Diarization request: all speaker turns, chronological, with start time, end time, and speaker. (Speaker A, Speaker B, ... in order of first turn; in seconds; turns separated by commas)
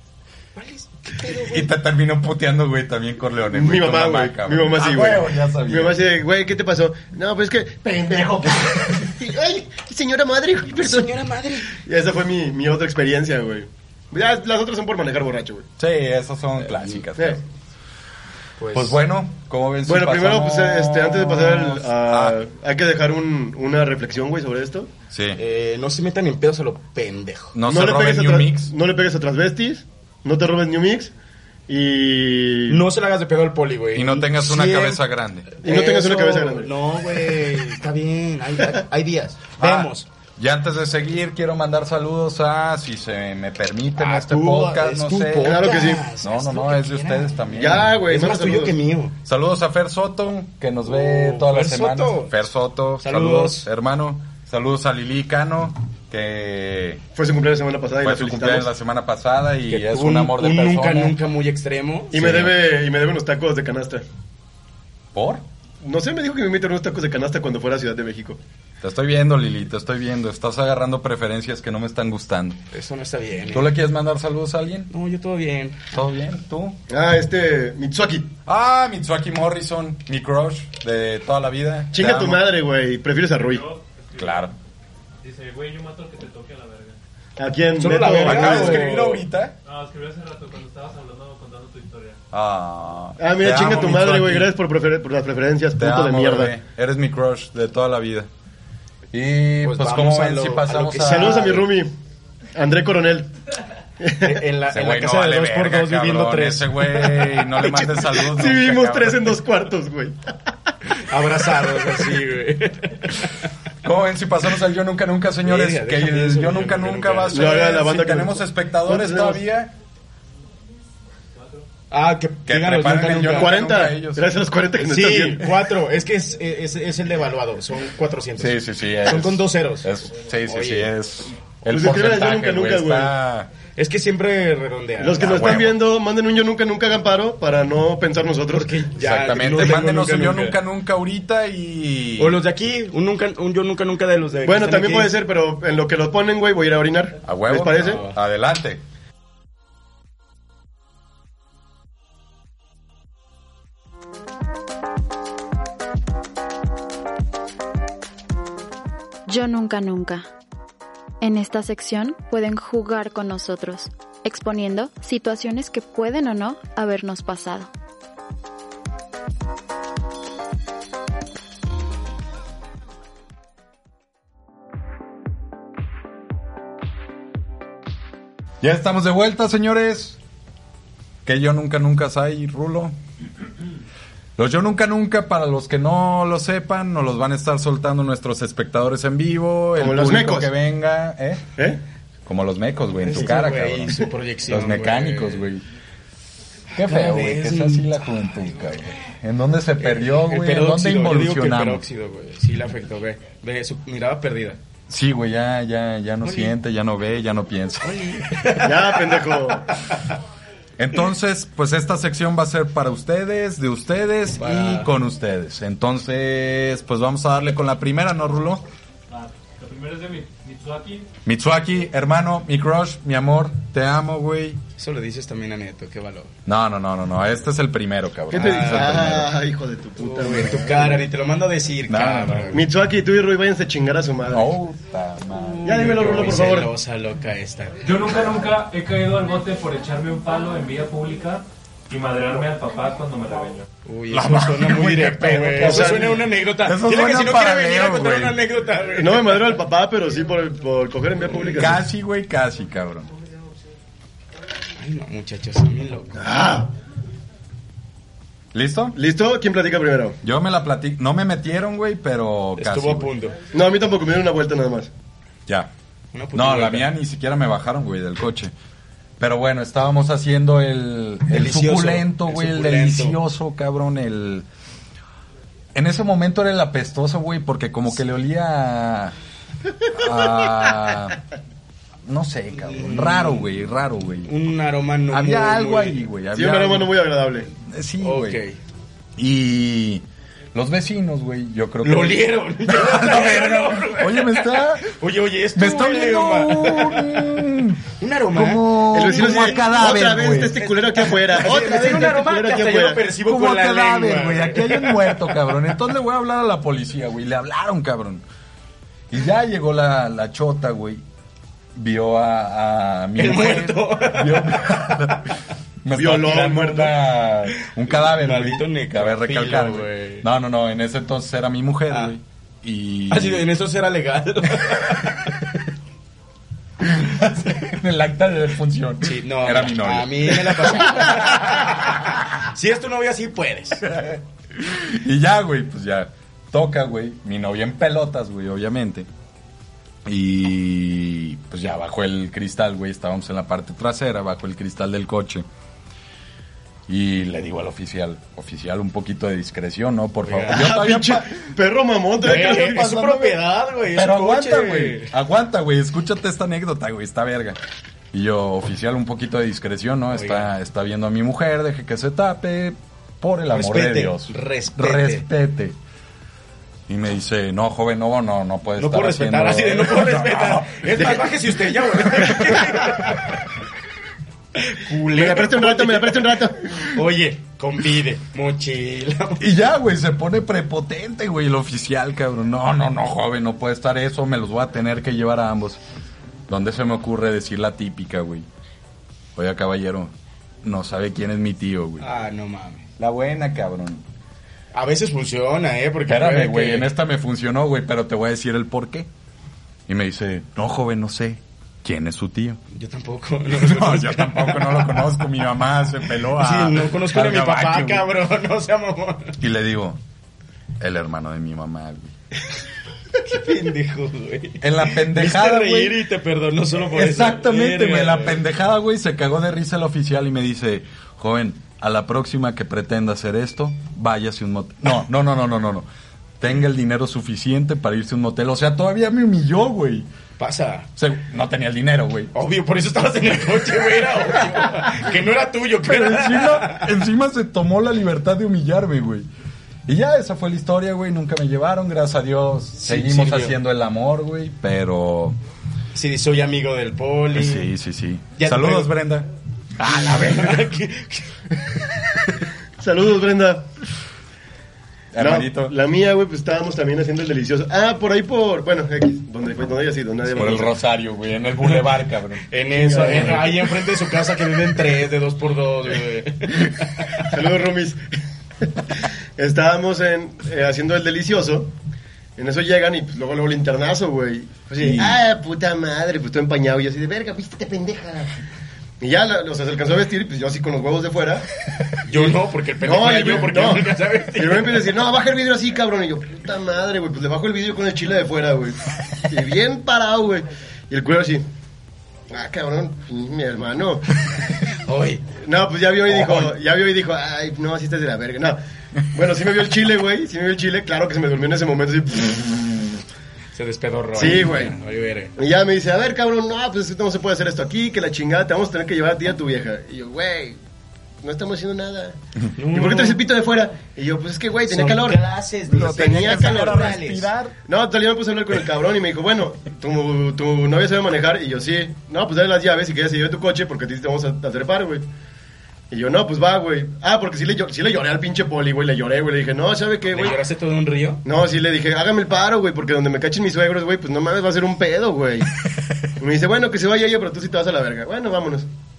Speaker A: 0.6-1.7, Speaker B: 1.3-6.0, Speaker C: 3.5-11.2, Speaker A: 10.8-11.8, Speaker C: 11.7-15.7, Speaker B: 15.8-17.4, Speaker A: 18.6-19.0, Speaker B: 18.7-22.4, Speaker C: 19.9-24.9, Speaker B: 25.1-25.4, Speaker A: 25.4-27.6, Speaker B: 27.5-28.7, Speaker C: 27.7-31.1, Speaker C: 31.7-32.8, Speaker A: 32.7-35.0, Speaker B: 33.9-35.5, Speaker A: 35.6-40.1, Speaker C: 35.6-36.7, Speaker B: 39.6-47.9, Speaker A: 44.0-47.5, Speaker C: 45.4-46.1, Speaker C: 47.5-48.8, Speaker A: 48.1-49.1, Speaker B: 49.3-57.0, Speaker A: 50.9-52.3, Speaker A: 53.0-53.7, Speaker C: 57.2-58.7, Speaker B: 58.0-61.2, Speaker A: 59.7-62.1, Speaker C: 62.1-64.0, Speaker B: 62.1-62.6, Speaker B: 65.1-65.5, Speaker C: 65.8-68.4, Speaker B: 68.8-72.6, Speaker A: 72.7-73.7, Speaker B: 73.5-74.9, Speaker A: 74.9-75.9, Speaker B: 75.9-76.8, Speaker C: 76.9-78.3, Speaker B: 78.5-82.4, Speaker C: 81.9-83.7, Speaker D: 83.4-84.5, Speaker B: 84.2-84.5, Speaker D: 85.2-87.0, Speaker C: 87.4-88.9, Speaker A: 87.8-89.2, Speaker B: 88.2-89.5, Speaker D: 89.7-92.2, Speaker B: 92.3-94.5, Speaker C: 93.2-96.5, Speaker B: 95.8-98.3, Speaker B: 99.1-101.7, Speaker A: 99.6-101.7, Speaker C: 101.0-101.9, Speaker C: 102.5-103.3, Speaker C: 104.0-104.4, Speaker A: 104.2-107.9, Speaker B: 104.7-109.4, Speaker C: 108.0-110.2, Speaker A: 111.1-113.3, Speaker B: 113.8-119.7, Speaker A: 115.4-117.5, Speaker C: 117.3-119.4, Speaker A: 121.9-123.6, Speaker B: 122.5-124.3, Speaker C: 123.3-125.6, Speaker A: 124.8-129.9, Speaker B: 128.4-133.5, Speaker A: 130.5-130.9, Speaker C: 131.7-133.1, Speaker A: 133.8-135.6, Speaker C: 135.0-138.8, Speaker B: 135.2-135.8, Speaker A: 138.5-140.6, Speaker B: 139.0-142.4, Speaker A: 142.2-145.1, Speaker C: 144.5-148.1, Speaker B: 147.2-148.8, Speaker A: 147.8-148.2, Speaker E: 159.3-160.3, Speaker E: 161.2-167.7, Speaker B: 178.6-180.2, Speaker B: 181.2-183.0, Speaker B: 184.4-191.4, Speaker C: 189.8-190.5, Speaker B: 192.3-195.6, Speaker A: 193.0-195.5, Speaker A: 196.7-197.9, Speaker B: 196.8-201.8, Speaker A: 199.8-204.6, Speaker B: 204.9-208.0, Speaker A: 206.2-206.5, Speaker A: 207.8-210.1, Speaker C: 208.6-209.7, Speaker B: 210.8-218.6, Speaker A: 214.4-214.9, Speaker D: 219.1-221.1, Speaker B: 221.2-224.6, Speaker A: 224.8-226.3, Speaker B: 226.4-229.3, Speaker C: 228.3-231.0, Speaker A: 228.3-229.0, Speaker A: 230.0-232.6, Speaker B: 231.9-232.6, Speaker C: 232.5-234.5, Speaker B: 234.3-236.5, Speaker A: 235.3-238.3, Speaker C: 235.6-236.7, Speaker D: 237.8-243.7, Speaker A: 243.9-249.6, Speaker B: 244.1-248.4, Speaker C: 245.6-246.2, Speaker C: 249.0-251.8, Speaker B: 251.4-253.1, Speaker A: 254.8-256.2, Speaker C: 256.2-256.7, Speaker B: 258.5-259.0, Speaker C: 258.9-260.2, Speaker B: 260.2-263.1, Speaker A: 262.6-263.4, Speaker C: 263.5-264.9, Speaker A: 266.1-266.9, Speaker B: 266.3-268.5, Speaker B: 269.2-274.5, Speaker A: 271.3-273.2, Speaker B: 275.7-279.1, Speaker B: 279.9-281.2, Speaker B: 282.1-284.3, Speaker A: 282.5-283.5, Speaker A: 284.2-286.0, Speaker B: 285.1-287.0, Speaker C: 286.3-287.5, Speaker B: 287.6-288.4, Speaker A: 288.0-288.6, Speaker B: 289.2-294.9, Speaker A: 291.8-297.2, Speaker B: 295.6-297.8, Speaker A: 298.0-299.8, Speaker B: 298.3-300.6, Speaker C: 298.9-303.0, Speaker A: 300.6-305.4, Speaker B: 303.2-308.2, Speaker B: 309.1-311.0, Speaker B: 311.8-323.5, Speaker A: 313.2-315.1, Speaker C: 315.9-317.0, Speaker A: 317.6-320.3, Speaker A: 321.9-322.2, Speaker A: 323.1-325.4, Speaker B: 326.8-332.1, Speaker A: 329.0-333.9, Speaker B: 333.8-339.1, Speaker B: 340.1-345.5, Speaker B: 346.9-351.3, Speaker A: 350.2-350.7, Speaker C: 350.5-352.9, Speaker A: 352.2-355.1, Speaker B: 352.2-353.4, Speaker B: 353.9-357.6, Speaker B: 358.1-365.8, Speaker A: 360.1-360.5, Speaker A: 363.5-365.3, Speaker B: 366.9-371.1, Speaker A: 368.8-373.4, Speaker B: 371.9-372.9, Speaker A: 374.6-376.2, Speaker C: 375.1-376.8, Speaker A: 376.8-379.4, Speaker B: 379.4-385.8, Speaker B: 386.5-388.5, Speaker B: 389.4-392.1, Speaker A: 392.0-392.9, Speaker B: 393.0-394.0, Speaker A: 394.7-396.9, Speaker B: 396.1-399.1, Speaker B: 399.9-402.6, Speaker A: 402.7-405.2, Speaker B: 403.5-408.1, Speaker A: 406.3-409.4, Speaker B: 409.4-410.0, Speaker B: 410.8-412.1, Speaker A: 413.2-418.4, Speaker B: 414.6-416.0, Speaker B: 416.9-425.9, Speaker B: 426.4-430.1, Speaker A: 430.4-430.9, Speaker B: 431.0-432.3, Speaker A: 432.3-436.9, Speaker B: 435.8-439.3, Speaker B: 439.9-445.4, Speaker A: 442.8-443.6, Speaker A: 445.9-447.7, Speaker B: 447.3-449.3, Speaker A: 448.4-448.9, Speaker B: 449.8-450.7, Speaker A: 449.8-451.9, Speaker C: 452.8-453.7, Speaker B: 455.1-455.7, Speaker C: 455.2-460.8, Speaker B: 460.3-463.4, Speaker A: 462.5-467.2, Speaker C: 462.8-463.5, Speaker C: 467.2-468.0, Speaker C: 468.9-471.7, Speaker C: 472.4-478.4, Speaker B: 474.8-475.2, Speaker C: 479.0-481.5, Speaker A: 482.1-484.9, Speaker C: 482.1-491.4, Speaker C: 492.3-494.2, Speaker A: 494.7-495.2, Speaker C: 495.4-503.0, Speaker A: 503.5-505.3, Speaker C: 504.1-504.7, Speaker C: 505.4-510.6, Speaker C: 511.2-512.2, Speaker A: 512.6-513.2, Speaker C: 512.7-515.2, Speaker A: 514.7-517.3, Speaker B: 515.7-517.5, Speaker C: 515.9-517.0, Speaker C: 517.7-525.0, Speaker C: 525.9-530.4, Speaker A: 530.1-531.2, Speaker C: 531.2-535.5, Speaker C: 536.2-538.7